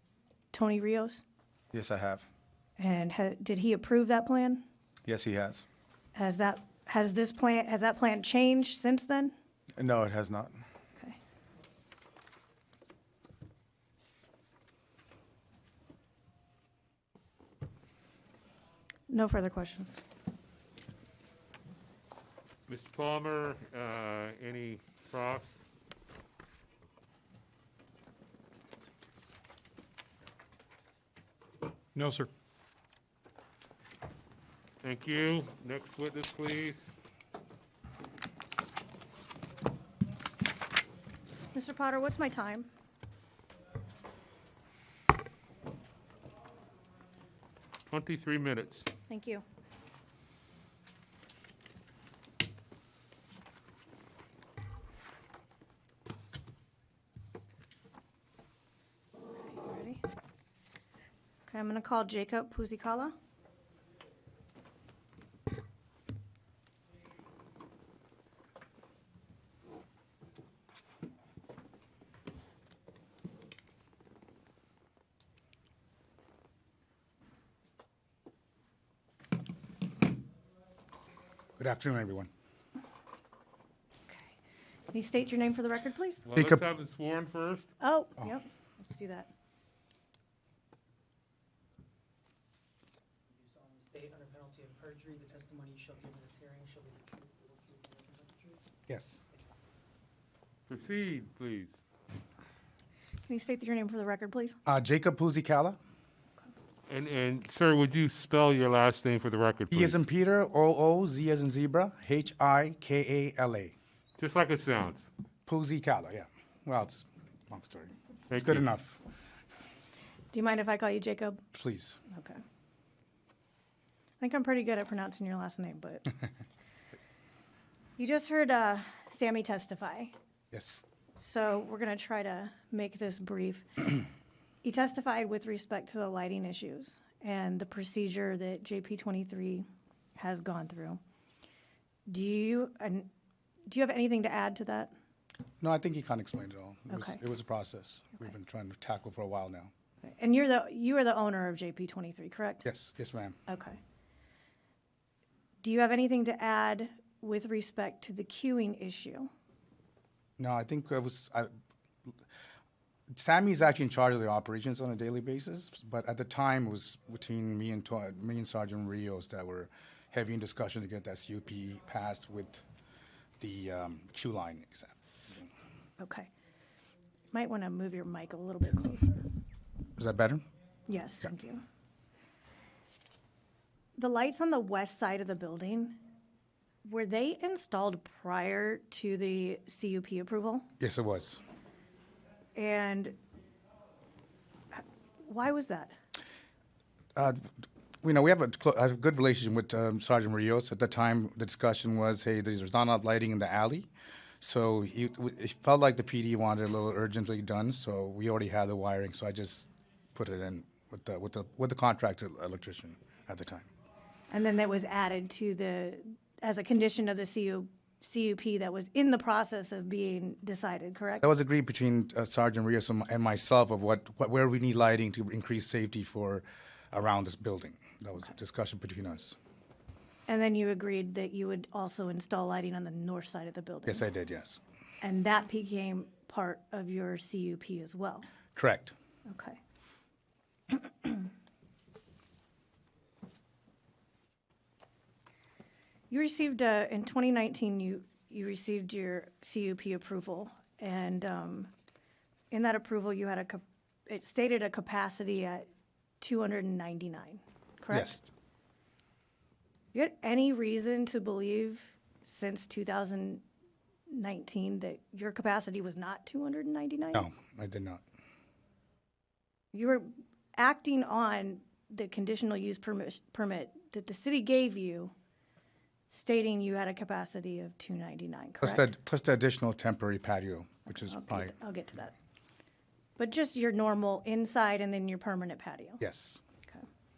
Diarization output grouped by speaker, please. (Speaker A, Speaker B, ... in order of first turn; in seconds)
Speaker A: 0.5-1.2, 2.8-4.6, 6.2-9.3, 19.1-20.0, 41.5-42.7, 49.1-49.4, 59.4-60.0, 61.5-63.1, 84.1-84.3, 84.9-86.2, 87.8-89.3, 103.3-104.6, 120.3-121.4, 122.1-122.4, 124.2-126.2, 128.0-130.1, 131.2-134.0, 134.6-139.7, 140.2-141.0, 142.1-143.1, 143.7-144.9, 146.9-147.2, 150.0-152.7, 153.5-153.8, 155.6-159.3, 176.0-176.3, 177.3-179.3, 180.9-181.6, 184.0-186.0, 186.8-190.7, 192.6-193.2, 194.7-195.9, 214.3-221.2, 230.3-234.0, 235.0-238.3, 239.3-239.6, 240.7-241.3, 246.1-251.7, 252.5-255.6, 256.2-258.2, 259.9-263.4, 264.1-267.3, 269.7-275.1, 276.1-278.9, 280.9-282.1, 283.2-286.0
Speaker B: 1.7-2.3, 5.0-5.7, 9.8-10.6
Speaker C: 22.7-25.6, 34.8-36.9, 47.9-48.9, 86.2-87.7, 100.7-101.7, 106.9-110.0, 114.2-115.1, 118.3-118.6
Speaker D: 81.6-82.3, 86.3-86.6, 98.9-99.2, 104.7-105.8, 109.7-113.7, 115.5-119.0, 121.5-122.0, 130.5-130.8, 145.6-149.7, 152.7-153.4, 160.4-161.5, 163.1-172.6, 173.4-175.5, 180.0-180.4, 190.8-191.4, 197.2-197.5, 198.0-213.7, 221.2-229.4, 233.9-234.6, 238.6-238.9, 257.9-258.3, 267.1-268.0, 278.6-281.5, 286.0-286.4
Speaker E: 93.4-98.5